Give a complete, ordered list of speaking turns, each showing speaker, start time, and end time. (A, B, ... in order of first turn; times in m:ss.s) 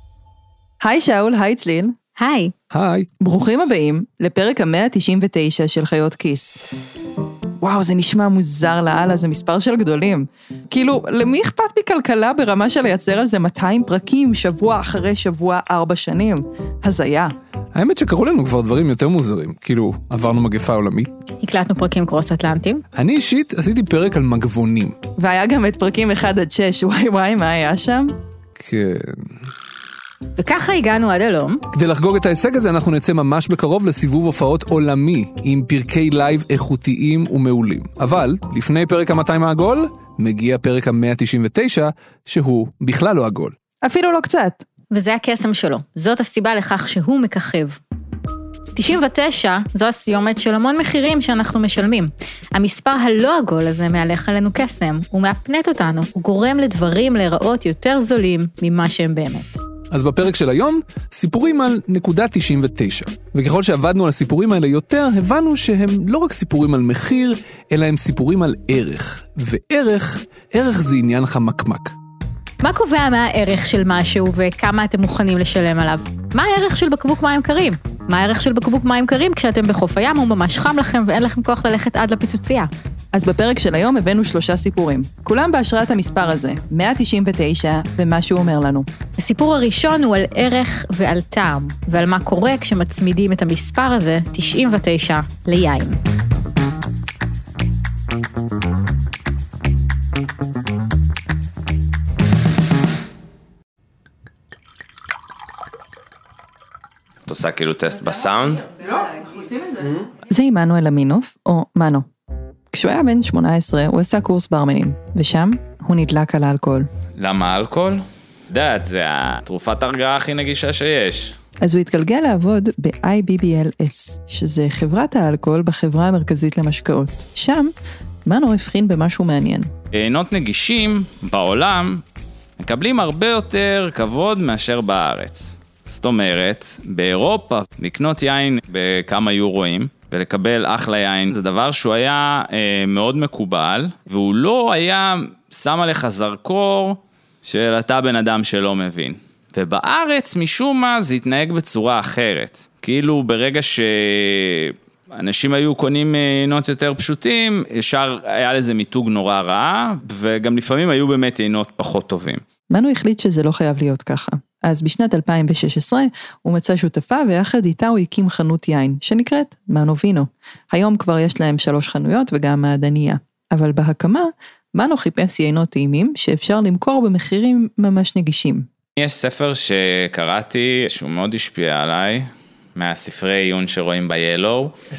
0:00.8-0:02.0 A
0:02.2-0:02.5 B
0:02.7-0:03.1 C
0:03.2-0:06.6 A
0:07.6-0:17.3 A
0:17.8-0:21.1 C
0:21.4-0:22.8 B
0:23.0-0:25.0 C
0:25.2-0:28.2 A
0:28.6-0:29.4 C
0:30.4-0:31.6 B
0:31.7-0:43.6 C
0:43.8-0:44.6 A
0:44.9-0:47.8 B
0:48.8-0:59.6 B
0:59.9-1:11.9 C
1:12.6-1:22.7 B
1:23.1-1:28.9 A
1:29.2-1:36.0 B
1:47.3-1:48.7 D
1:50.3-1:52.1 A
1:52.7-1:56.9 A
1:57.2-2:01.4 D
2:01.6-2:07.7 A
2:08.3-2:09.7 A
2:09.9-2:12.0 D
2:12.6-2:42.4 D
2:42.7-2:58.7 A
2:59.0-3:04.7 D